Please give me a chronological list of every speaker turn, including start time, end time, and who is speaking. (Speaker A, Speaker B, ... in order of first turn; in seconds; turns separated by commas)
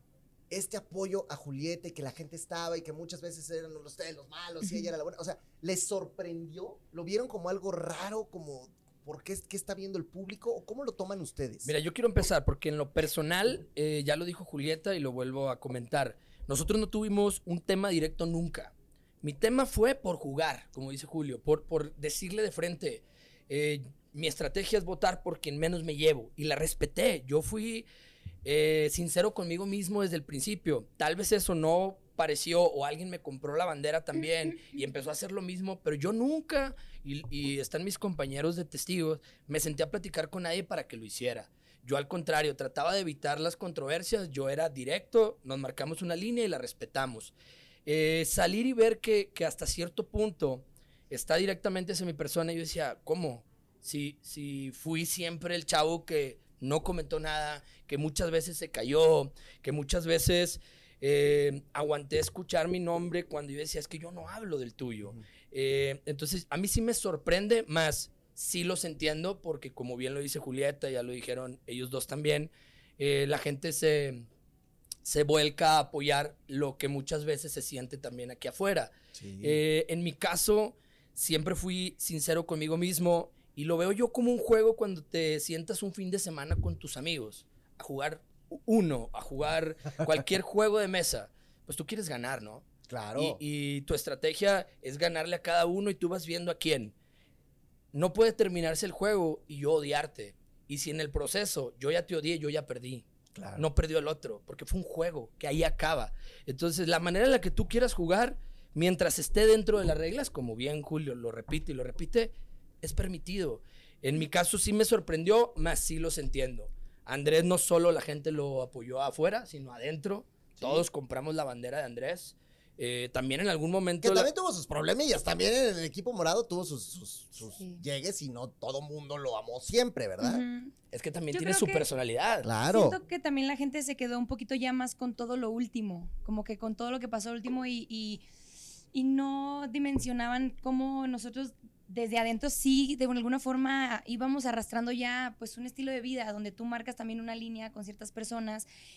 Speaker A: 0.5-11.7, Speaker B: 11.6-27.9, Speaker B: 28.4-47.3, Speaker B: 47.9-74.3, Speaker B: 75.0-92.6, Speaker A: 79.1-79.6, Speaker A: 92.9-93.4, Speaker B: 93.2-96.9, Speaker B: 97.9-124.3, Speaker A: 103.3-103.6, Speaker A: 120.6-120.9, Speaker A: 124.0-130.4, Speaker C: 127.5-127.8, Speaker C: 130.2-130.7, Speaker B: 130.9-132.5, Speaker C: 131.3-131.9, Speaker A: 132.4-133.0, Speaker C: 132.7-138.2, Speaker C: 138.9-148.7